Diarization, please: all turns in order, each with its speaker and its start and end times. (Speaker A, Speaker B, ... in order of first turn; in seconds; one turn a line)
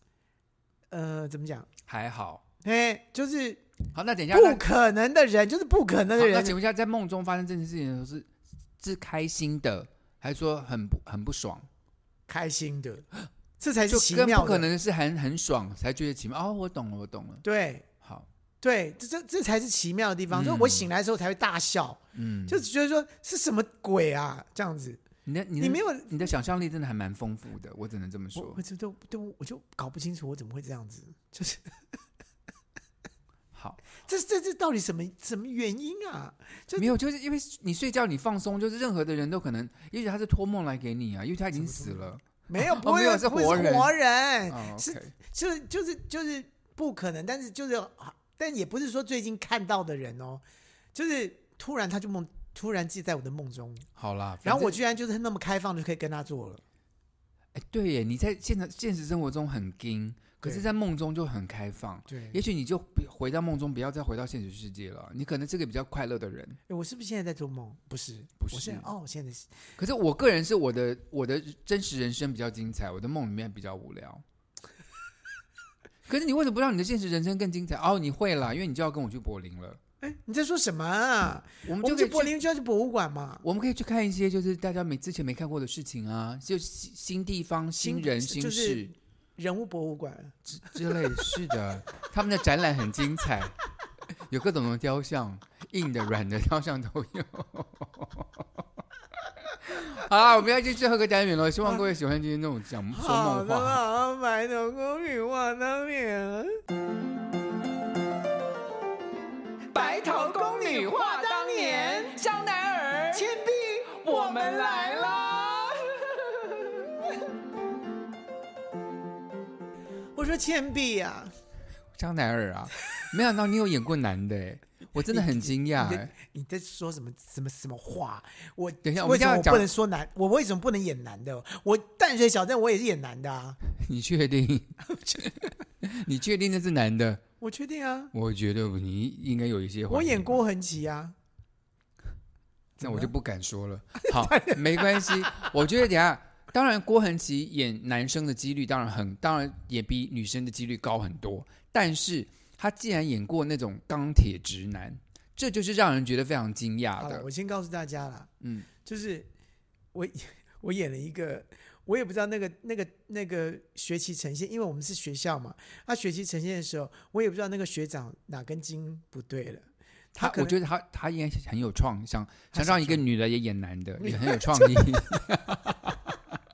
Speaker A: 0.9-1.7
Speaker B: 1.9-2.4
Speaker A: 2.6-3.6
Speaker B: 3.9-4.6
Speaker A: 4.3-6.6
Speaker B: 6.2-11.7
Speaker A: 12.3-13.1
Speaker A: 13.6-14.7
Speaker B: 13.9-17.4
Speaker A: 17.4-17.9
Speaker B: 18.0-18.3
Speaker A: 18.6-25.0
Speaker B: 20.3-20.9
Speaker B: 22.1-22.6
Speaker B: 25.3-28.6
Speaker A: 25.6-26.2
Speaker A: 28.4-31.7
Speaker B: 33.5-33.8
Speaker A: 34.0-36.9
Speaker B: 36.8-43.9
Speaker A: 41.5-50.4
Speaker B: 44.5-45.1
Speaker A: 50.9-53.9
Speaker B: 54.0-54.8
Speaker A: 54.4-56.6
Speaker B: 57.5-66.6
Speaker A: 62.1-62.4
Speaker A: 66.7-69.5
Speaker B: 68.4-68.9
Speaker B: 69.8-74.2
Speaker B: 76.1-79.8
Speaker A: 80.0-83.4
Speaker B: 81.6-82.4
Speaker B: 83.4-88.9
Speaker A: 87.8-91.0
Speaker B: 90.5-93.6
Speaker B: 94.3-98.6
Speaker B: 99.6-103.8
Speaker A: 102.9-106.6
Speaker C: 109.7-113.3
Speaker A: 109.8-112.1
Speaker A: 113.1-114.8
Speaker C: 113.9-116.7
Speaker A: 120.1-121.3
Speaker B: 121.9-126.1
Speaker A: 125.1-133.6
Speaker B: 128.8-129.7
Speaker B: 133.7-137.2
Speaker A: 134.9-135.3
Speaker A: 137.4-138.1
Speaker B: 138.1-140.4
Speaker A: 139.9-141.1
Speaker A: 142.8-143.1
Speaker B: 142.8-157.3
Speaker A: 144.0-145.4
Speaker A: 157.0-158.3
Speaker B: 158.4-158.7
Speaker A: 158.8-159.3
Speaker A: 159.9-170.6
Speaker B: 170.2-176.0
Speaker A: 172.5-173.0
Speaker A: 174.0-175.0